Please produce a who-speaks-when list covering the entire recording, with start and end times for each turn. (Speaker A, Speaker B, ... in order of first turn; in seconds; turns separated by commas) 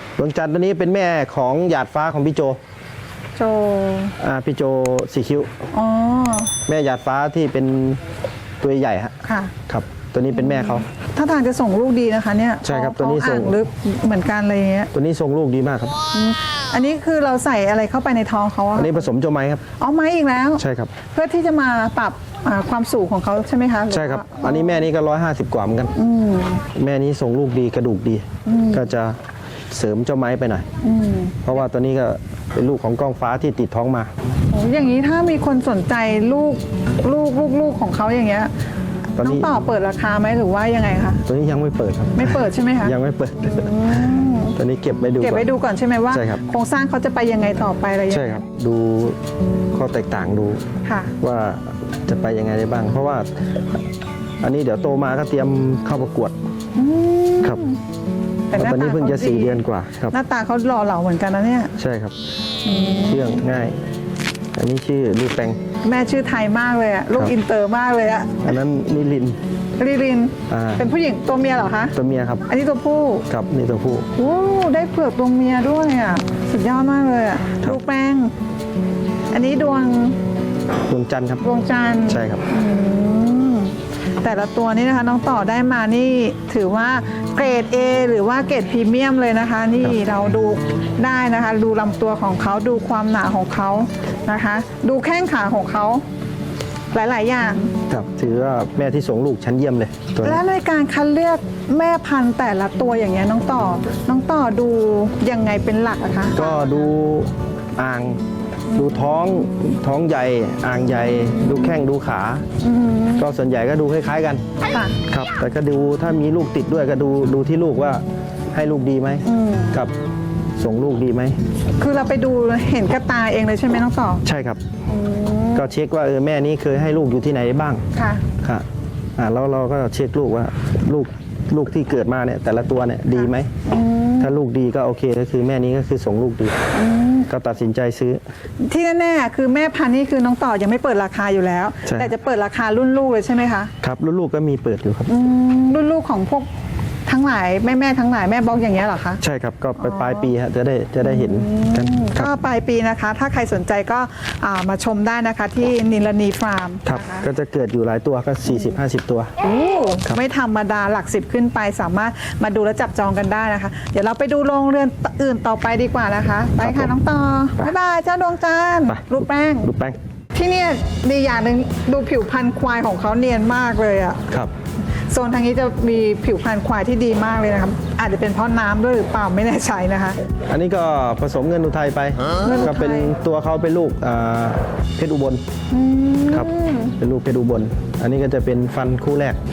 Speaker A: 0.2-2.6, Speaker B: 3.4-4.2, Speaker A: 4.2-5.5, Speaker B: 5.7-6.5, Speaker A: 6.6-8.0, Speaker A: 8.6-9.1, Speaker B: 9.2-9.5, Speaker A: 9.7-10.8, Speaker B: 10.9-14.9, Speaker A: 12.6-13.6, Speaker A: 14.9-15.9, Speaker B: 16.1-19.0, Speaker A: 18.8-19.6, Speaker B: 19.8-24.8, Speaker A: 20.6-20.9, Speaker A: 23.9-25.9, Speaker B: 25.9-26.6, Speaker A: 26.7-29.2, Speaker B: 28.4-28.8, Speaker A: 29.7-30.6, Speaker B: 30.8-31.4, Speaker A: 31.4-34.1, Speaker B: 34.5-38.5, Speaker A: 39.2-39.5, Speaker B: 39.2-41.2, Speaker A: 41.2-45.5, Speaker B: 42.2-42.9, Speaker B: 43.5-44.5, Speaker B: 45.2-48.3, Speaker A: 46.1-46.4, Speaker A: 48.1-49.2, Speaker A: 49.7-50.6, Speaker B: 50.8-51.1, Speaker A: 51.2-53.3, Speaker A: 54.4-56.3, Speaker B: 56.7-57.8, Speaker B: 58.5-59.6, Speaker A: 58.5-60.2, Speaker B: 60.1-61.7, Speaker A: 61.8-62.1, Speaker B: 62.6-63.4, Speaker A: 62.9-63.8, Speaker A: 64.5-65.6, Speaker B: 65.8-68.4, Speaker A: 68.4-69.4, Speaker B: 69.8-71.9, Speaker A: 70.5-70.8, Speaker A: 71.9-72.4, Speaker B: 72.5-73.2, Speaker A: 73.3-74.1, Speaker B: 74.2-78.3, Speaker B: 79.3-80.2, Speaker A: 80.9-81.4, Speaker B: 81.4-96.0, Speaker A: 82.1-82.4, Speaker B: 96.9-97.7, Speaker A: 97.9-100.4, Speaker B: 100.2-106.5, Speaker A: 106.3-112.4, Speaker B: 112.6-113.2, Speaker A: 113.2-114.4, Speaker B: 114.7-115.0, Speaker A: 115.1-119.9, Speaker B: 119.2-119.7, Speaker A: 120.6-121.3, Speaker B: 121.8-124.2, Speaker A: 124.2-124.6, Speaker B: 124.9-125.7, Speaker A: 125.5-127.8, Speaker B: 127.9-128.3, Speaker A: 129.2-133.5, Speaker B: 133.2-134.3, Speaker A: 134.2-136.7, Speaker B: 136.7-137.3, Speaker A: 137.3-138.2, Speaker B: 138.6-143.7, Speaker A: 141.8-142.1, Speaker A: 143.8-145.1, Speaker B: 145.1-146.5, Speaker B: 147.1-149.2, Speaker A: 149.2-152.3, Speaker B: 149.8-150.3, Speaker B: 151.0-157.2, Speaker A: 156.8-159.3, Speaker B: 159.4-169.7, Speaker A: 166.6-166.9, Speaker A: 168.9-170.0, Speaker B: 170.3-174.2, Speaker B: 175.1-180.2, Speaker A: 180.5-185.4, Speaker B: 182.4-183.1, Speaker B: 185.7-186.9, Speaker A: 186.3-189.4